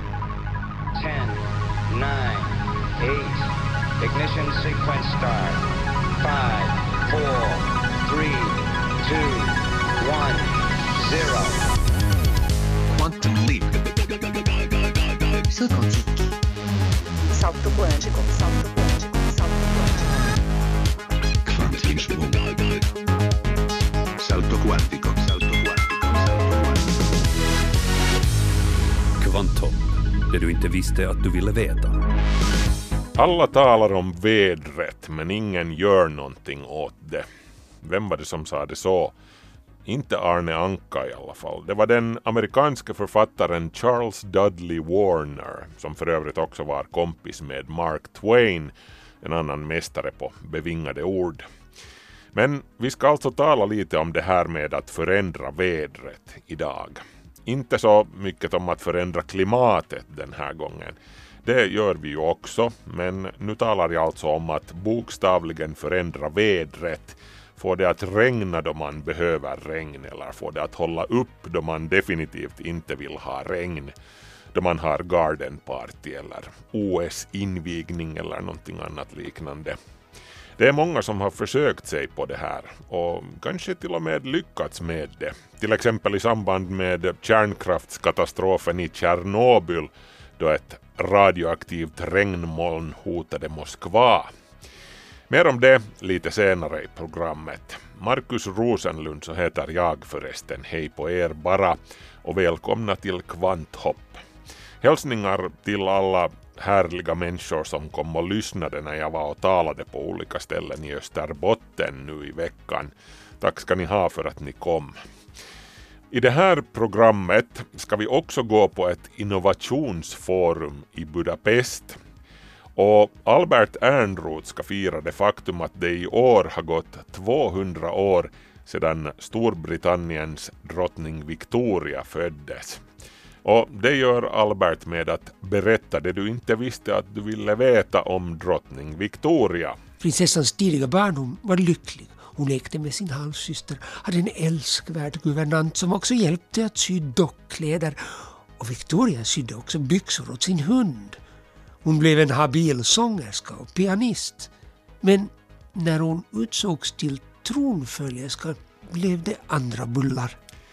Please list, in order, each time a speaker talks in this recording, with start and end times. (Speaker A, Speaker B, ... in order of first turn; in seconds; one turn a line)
Speaker A: 1.0-5.6
Speaker A: 6.2-11.7
Speaker B: 12.9-15.6
Speaker C: 15.5-16.3
Speaker C: 17.3-20.1
Speaker B: 21.4-22.9
Speaker B: 24.2-26.9
Speaker D: 29.2-32.0
Speaker E: 33.2-37.2
Speaker E: 37.8-39.1
Speaker E: 39.9-51.5
Speaker E: 52.3-73.9
Speaker E: 74.5-79.8
Speaker E: 80.6-94.3
Speaker E: 95.3-104.2
Speaker E: 104.8-115.0
Speaker E: 116.1-122.0
Speaker E: 122.8-132.8
Speaker E: 133.4-139.8
Speaker F: 140.0-151.2
Speaker F: 151.8-160.4